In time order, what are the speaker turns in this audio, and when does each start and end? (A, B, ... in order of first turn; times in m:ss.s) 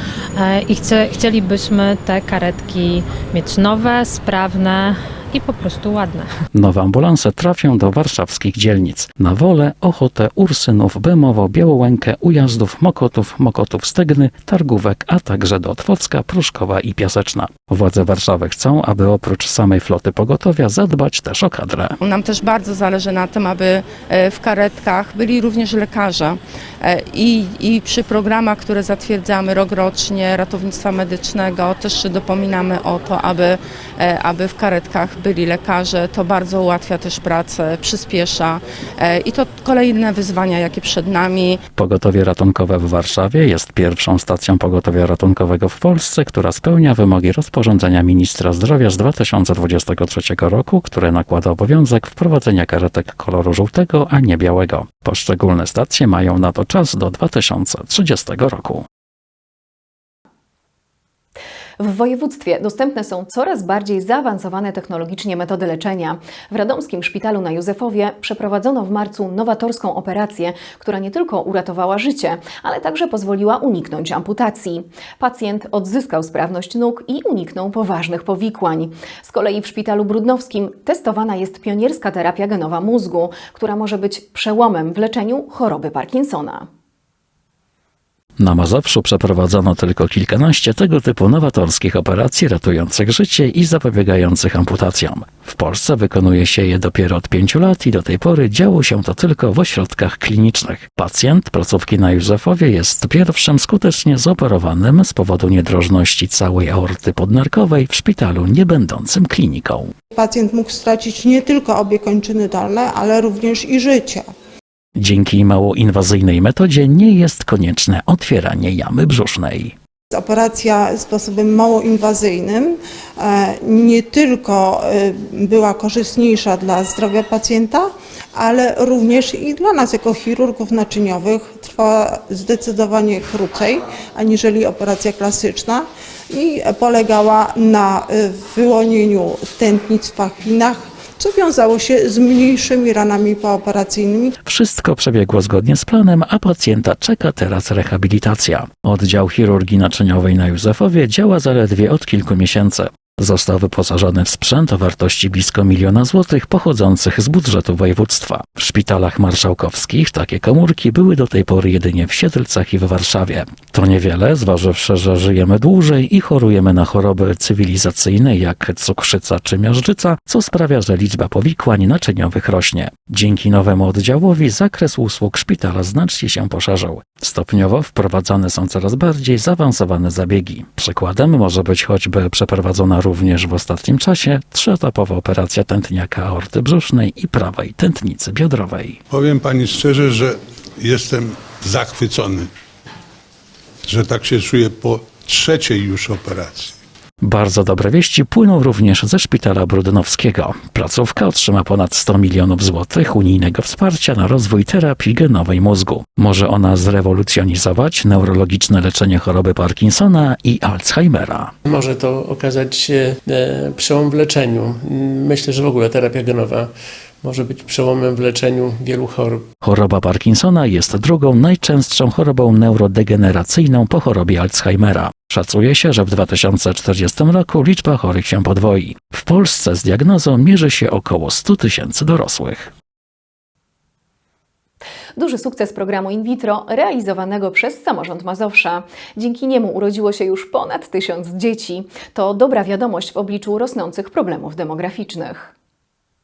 0:00.4-0:06.3 A
0:06.5-0:22.0 B
0:22.0-0:41.6 C
0:41.8-0:58.8 B
1:01.8-1:26.7 D
1:28.4-1:49.9 B
1:50.2-1:54.3 E
1:55.0-1:59.7 B
2:00.1-2:24.3 E
2:24.5-3:09.0 B
3:09.1-3:12.5 F
3:13.9-3:16.8 F
3:17.2-3:31.5 B
3:31.7-3:36.7 G
3:37.2-3:39.4 G
3:39.6-3:52.7 B
3:55.2-4:05.5 D